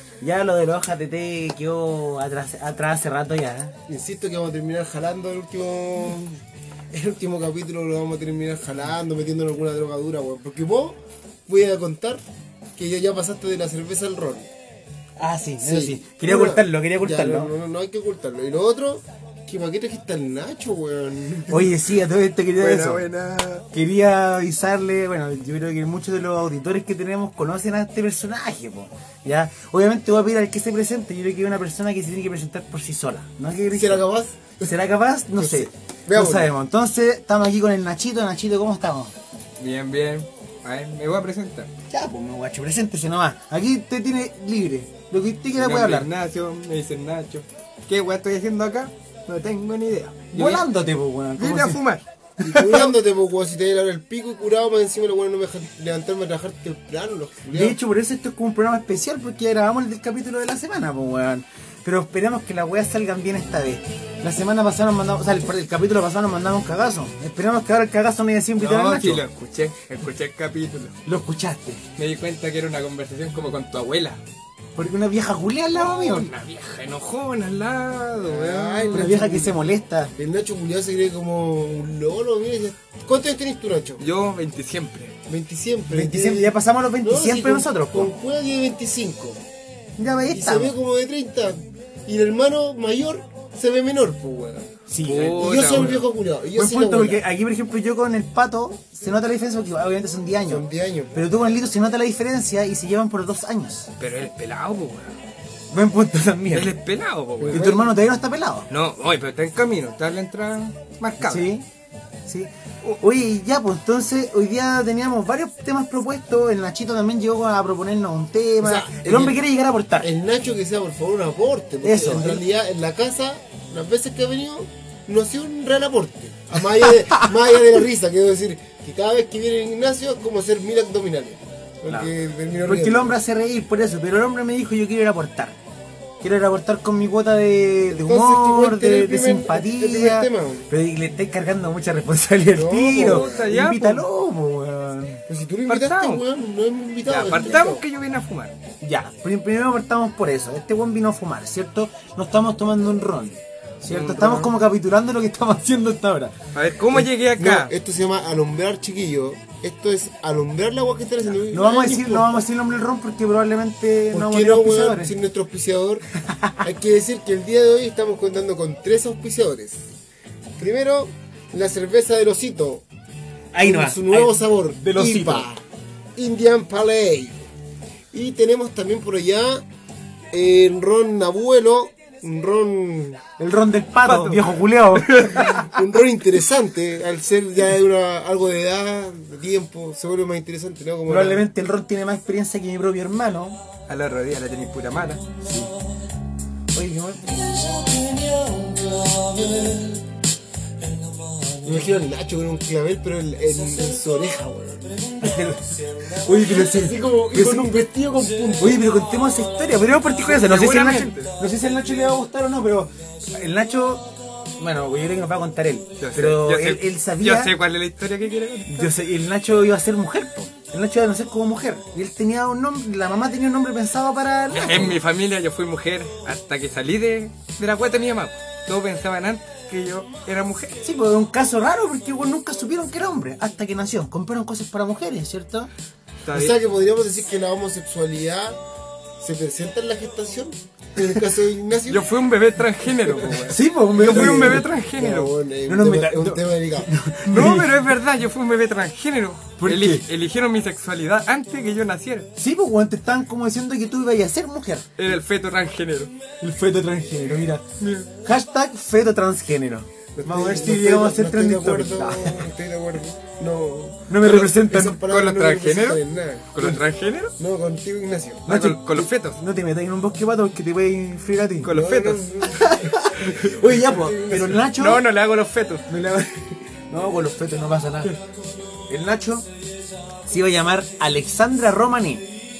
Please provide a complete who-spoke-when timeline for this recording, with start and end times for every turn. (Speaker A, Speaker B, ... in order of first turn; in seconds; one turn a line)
Speaker A: 0.2-3.8
Speaker B: 3.9-12.2
Speaker B: 12.8-14.5
Speaker A: 15.2-17.5
Speaker B: 15.6-21.8
Speaker A: 21.5-23.1
Speaker C: 22.6-23.6
Speaker A: 23.7-34.0
Speaker B: 33.7-34.7
Speaker A: 34.6-39.1
Speaker B: 35.4-36.5
Speaker C: 39.6-41.7
Speaker A: 41.9-46.1
Speaker C: 45.5-50.7
Speaker A: 49.3-51.8
Speaker C: 51.4-52.0
Speaker A: 52.4-52.9
Speaker B: 52.4-57.8
Speaker A: 57.5-69.2
Speaker C: 68.6-71.0
Speaker A: 71.0-71.8
Speaker C: 72.0-74.2
Speaker A: 74.8-76.3
Speaker C: 75.7-79.1
Speaker B: 78.2-84.0
Speaker A: 78.9-80.1
Speaker C: 84.0-85.1
Speaker B: 85.2-89.4
Speaker A: 85.9-88.1
Speaker A: 90.0-90.8
Speaker B: 90.3-97.2
Speaker A: 94.9-95.9
Speaker C: 95.0-96.1
Speaker A: 96.5-103.9
Speaker B: 100.5-101.2
Speaker C: 104.0-105.2
Speaker A: 105.7-106.7
Speaker C: 106.5-107.7
Speaker B: 107.4-108.0
Speaker A: 107.5-108.7
Speaker C: 108.7-111.5
Speaker A: 111.2-111.7
Speaker A: 112.3-120.1
Speaker B: 118.6-119.4
Speaker B: 120.0-133.2
Speaker A: 121.8-122.4
Speaker A: 132.7-135.6
Speaker A: 136.2-145.2
Speaker B: 137.9-140.7
Speaker B: 142.5-143.5
Speaker C: 142.9-144.0
Speaker B: 145.3-147.8
Speaker C: 145.7-146.2
Speaker C: 147.0-148.5
Speaker A: 148.8-156.3
Speaker C: 153.9-154.5
Speaker C: 156.5-157.7
Speaker B: 156.9-162.4
Speaker A: 161.5-165.1
Speaker B: 164.1-166.1
Speaker A: 166.2-166.6
Speaker B: 166.6-169.8
Speaker B: 170.6-172.8
Speaker A: 173.5-175.5
Speaker B: 173.6-175.6
Speaker B: 176.2-177.5
Speaker B: 178.1-179.6
Speaker B: 180.3-183.2
Speaker A: 183.4-185.6
Speaker C: 184.1-185.7
Speaker B: 185.4-191.4
Speaker A: 191.1-193.6
Speaker C: 193.9-195.2
Speaker A: 195.4-195.7
Speaker A: 196.7-197.7
Speaker B: 198.4-199.9
Speaker B: 201.6-205.0
Speaker A: 205.2-207.7
Speaker B: 206.3-208.9
Speaker A: 208.6-217.5
Speaker C: 210.2-211.3
Speaker C: 216.0-218.9
Speaker A: 218.7-225.0
Speaker C: 224.5-230.8
Speaker A: 230.8-235.7
Speaker C: 236.2-236.5
Speaker B: 236.3-238.6
Speaker B: 239.2-242.1
Speaker C: 241.9-245.3
Speaker A: 243.5-244.7
Speaker B: 243.9-246.9
Speaker A: 245.7-247.7
Speaker C: 247.3-252.3
Speaker A: 249.6-250.0
Speaker A: 252.3-254.9
Speaker C: 254.9-256.1
Speaker A: 256.4-257.6
Speaker C: 257.8-258.1
Speaker A: 258.2-262.5
Speaker B: 260.1-266.8
Speaker A: 264.1-265.0
Speaker C: 264.2-266.0
Speaker C: 266.5-267.3
Speaker B: 267.4-268.5
Speaker C: 268.5-269.4
Speaker A: 268.5-271.7
Speaker C: 271.6-272.2
Speaker B: 271.7-274.6
Speaker A: 272.5-275.0
Speaker C: 274.1-275.8
Speaker A: 275.9-278.1
Speaker A: 278.9-279.5
Speaker A: 280.2-282.2